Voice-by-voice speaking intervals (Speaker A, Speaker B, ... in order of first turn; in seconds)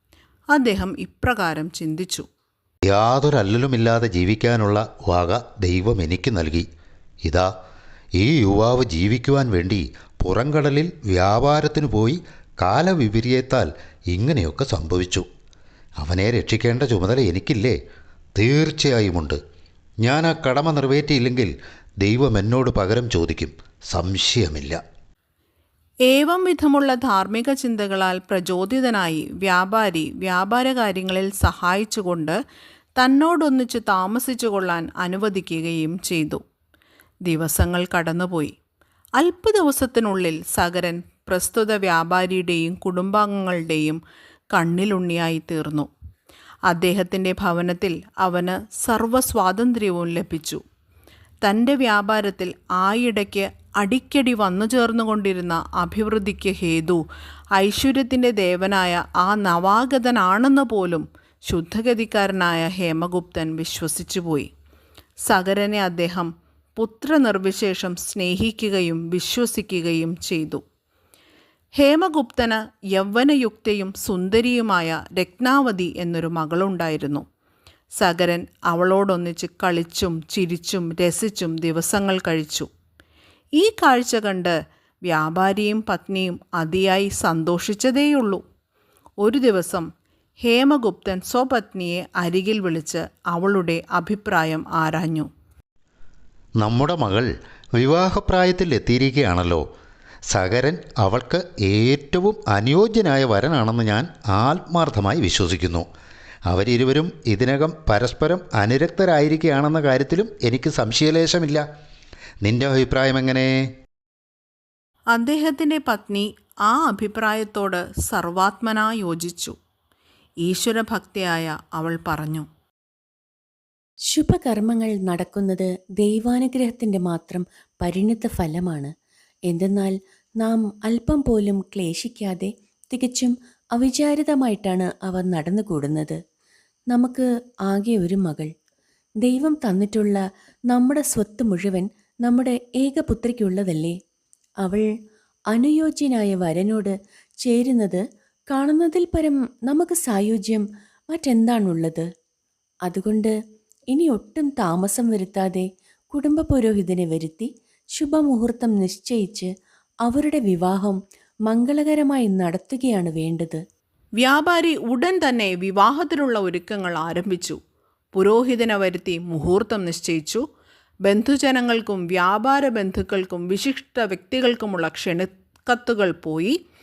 Speaker A: 0.5-2.3, 26.1-32.4, 33.0-36.4, 37.2-38.5, 39.2-44.0, 44.5-45.9, 46.7-50.6, 51.4-57.0, 57.5-64.5, 65.2-70.6, 71.7-77.2, 78.0-82.7, 83.6-88.4, 89.2-89.9, 90.4-95.3, 115.1-119.5, 120.4-122.5, 164.2-167.6, 168.1-170.4, 171.0-176.6
Speaker B: 2.9-6.7, 7.2-7.5, 8.2-15.2, 16.0-17.8, 18.3-19.4, 20.0-24.8, 96.6-99.6, 100.3-105.8, 106.5-111.6, 112.4-113.6
Speaker C: 124.1-128.9, 129.5-136.2, 136.9-138.5, 139.2-143.9, 144.6-144.9, 145.5-152.1, 152.9-153.3, 153.9-159.5, 160.1-161.0, 161.5-163.6